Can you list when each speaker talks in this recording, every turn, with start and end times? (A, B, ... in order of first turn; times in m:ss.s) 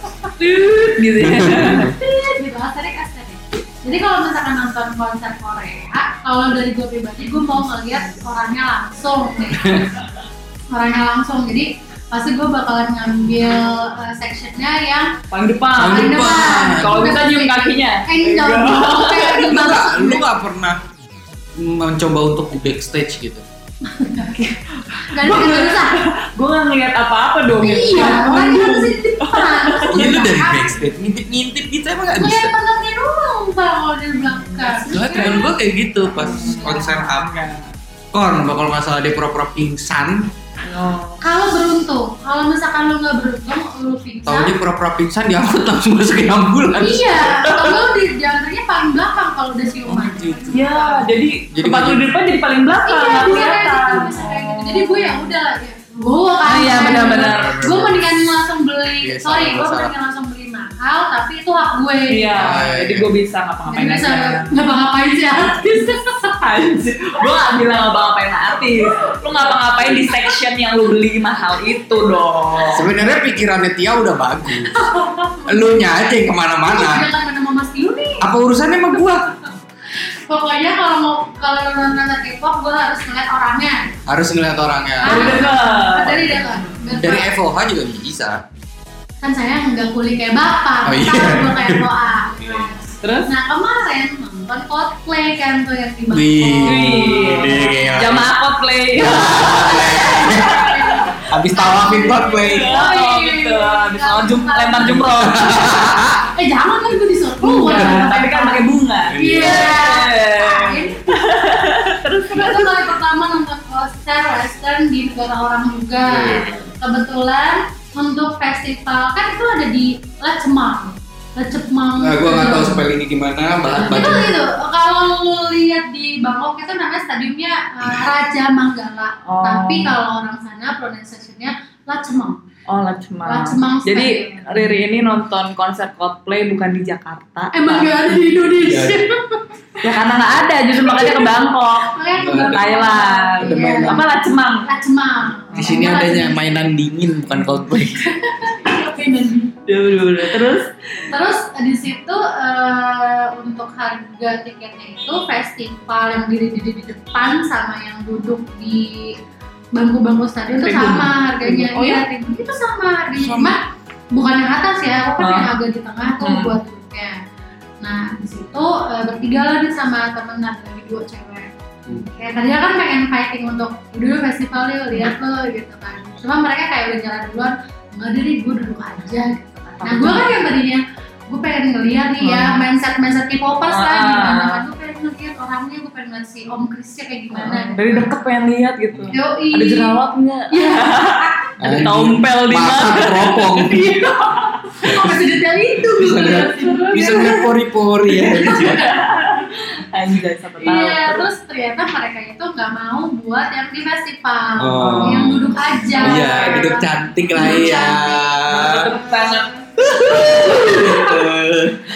0:00.2-0:00.7 A
0:00.4-0:01.9 B
0:01.2-0:01.9 C
0:01.5-0:09.9 A
0:09.6-0:09.9 C
0:10.7-0:15.2 A
0:15.3-0:19.5 B
0:15.8-0:17.1 C
0:15.8-0:20.2 A
0:19.5-0:20.8 C
0:21.6-0:23.4 C
0:23.9-0:24.3 A
0:24.1-0:30.1 B
0:25.1-0:26.0 A
0:27.6-0:30.8 A
0:28.0-0:28.9 C
0:29.9-0:32.5 C
0:32.2-0:35.5 A
0:34.3-0:35.5 B
0:34.9-0:37.4 C
0:36.2-0:37.7 B
0:36.2-0:36.9 A
0:38.1-0:40.3 C
0:40.6-0:41.2 B
0:41.2-0:44.6 A
0:44.2-0:47.7 C
0:46.8-0:51.1 A
0:47.5-0:47.8 B
0:49.8-0:50.6 C
0:50.5-0:55.3 B
0:51.5-0:52.0 C
0:52.8-1:02.5 A
0:56.4-0:57.6 B
0:57.0-0:58.4 C
0:59.0-0:59.9 C
1:02.1-1:04.6 B
1:02.3-1:03.1 C
1:03.7-1:06.4 A
1:06.4-1:12.9 B
1:10.0-1:10.4 A
1:12.7-1:14.8 C
1:14.7-1:16.0 A
1:15.5-1:17.1 C
1:16.6-1:18.3 A
1:18.2-1:19.3 C
1:20.3-1:23.9 A
1:24.1-1:26.4 C
1:25.0-1:27.3 A
1:25.0-1:26.8 B
1:26.9-1:28.4 C
1:29.2-1:37.7 A
1:30.8-1:32.7 C
1:33.0-1:33.3 B
1:36.1-1:38.3 C
1:36.6-1:41.2 B
1:39.0-1:40.6 C
1:39.3-1:51.2 A
1:41.3-1:42.7 C
1:42.0-1:45.6 B
1:45.2-1:46.2 C
1:47.4-1:52.9 B
1:49.1-1:49.8 C
1:52.3-2:02.8 A
1:56.0-1:56.7 C
2:02.0-2:04.3 C
2:03.8-2:12.4 A
2:03.9-2:04.2 B
2:09.2-2:10.0 B
2:12.7-2:18.3 B
2:13.2-2:14.7 A
2:17.5-2:19.9 A
2:18.6-2:19.0 C
2:19.8-2:24.7 B
2:20.8-2:21.3 A
2:21.8-2:24.0 A
2:22.1-2:22.7 C
2:23.4-2:24.1 C
2:24.6-2:26.6 A
2:25.5-2:28.0 C
2:27.8-2:29.6 A
2:29.7-2:31.0 B
2:31.1-2:39.2 A
2:39.7-2:43.6 A
2:40.6-2:42.0 B
2:43.2-2:43.5 C
2:44.1-2:47.2 A
2:45.2-2:45.5 B
2:46.2-2:46.5 B
2:47.8-2:51.5 A
2:52.0-3:08.1 A
2:59.8-3:00.3 B
3:02.2-3:02.6 B
3:03.7-3:04.6 B
3:07.3-3:15.0 B
3:09.1-3:10.0 A
3:10.5-3:11.9 A
3:11.6-3:13.9 C
3:13.8-3:14.1 A
3:14.7-3:17.4 A
3:14.9-3:15.1 C
3:15.8-3:18.9 C
3:16.6-3:17.5 B
3:18.1-3:21.3 B
3:18.4-3:19.0 A
3:20.6-3:28.4 A
3:24.6-3:29.0 C
3:24.8-3:27.9 B
3:28.5-3:29.6 B
3:29.8-3:31.8 C
3:30.0-3:31.3 A